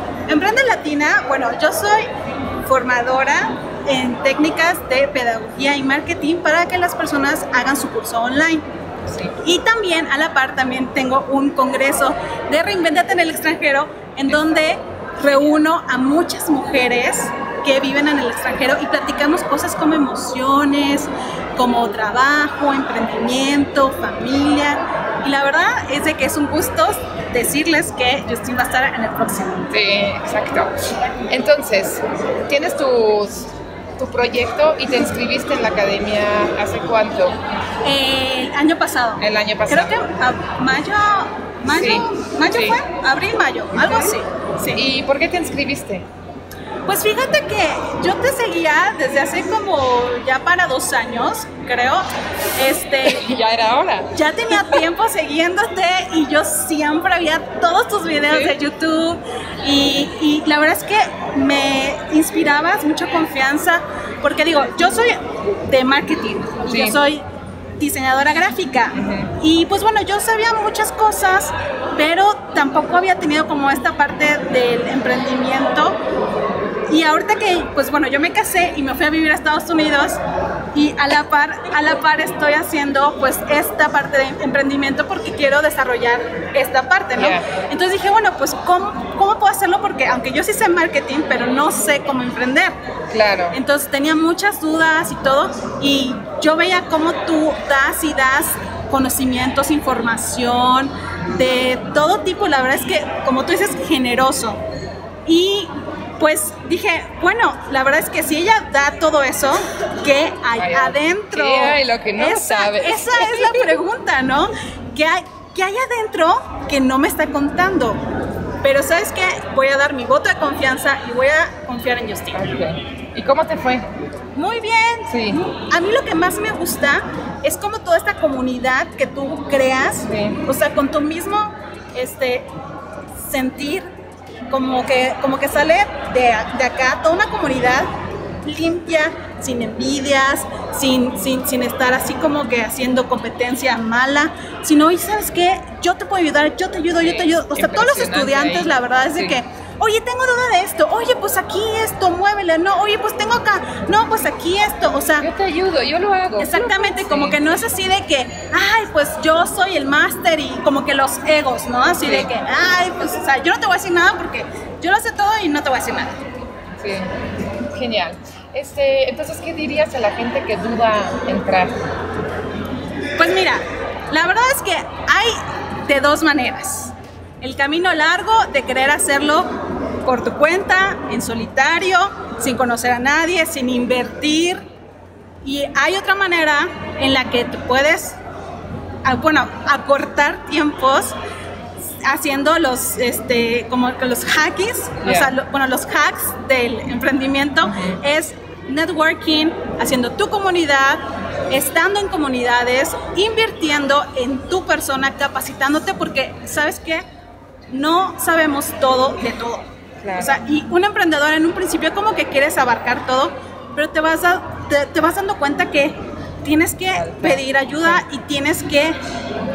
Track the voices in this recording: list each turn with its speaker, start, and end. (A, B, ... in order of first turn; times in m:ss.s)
0:00.3-0:02.1 A
0:02.6-0:08.7 A
0:09.1-0:09.4 B
0:09.4-0:29.7 A
0:14.2-0:14.6 B
0:29.7-0:37.4 B
0:37.8-0:44.8 A
0:39.2-0:39.9 B
0:41.7-0:42.8 B
0:43.8-0:44.2 B
0:44.7-0:46.1 B
0:46.9-0:53.3 A
0:53.0-0:54.9 B
0:54.1-1:07.2 A
0:58.3-0:58.6 B
1:06.7-1:07.0 B
1:07.8-1:16.0 A
1:08.9-1:09.3 B
1:16.9-1:20.2 A
1:20.7-1:32.8 A
1:27.2-1:27.5 B
1:33.1-1:33.6 B
1:33.5-1:44.6 A
1:45.3-1:58.0 A
1:50.6-1:53.8 B
1:58.6-2:02.4 A
2:02.3-2:03.9 B
2:04.4-2:12.5 A
2:05.1-2:05.4 B
2:10.1-2:10.4 B
2:13.2-2:13.9 A
2:14.5-2:17.9 A
2:18.4-2:35.3 A
2:27.0-2:29.4 B
2:35.2-2:37.4 B
2:36.4-2:46.2 A
2:42.0-2:42.3 B
2:46.8-2:47.1 B
2:47.7-2:51.8 B
2:53.2-2:59.5 A
3:00.0-3:04.7 A
3:05.4-3:08.2 A
3:09.0-3:11.2 A
3:12.0-3:27.0 A
3:15.0-3:15.4 B
3:17.6-3:18.0 B
3:27.7-3:39.0 A
3:30.0-3:30.4 B
3:36.9-3:38.0 B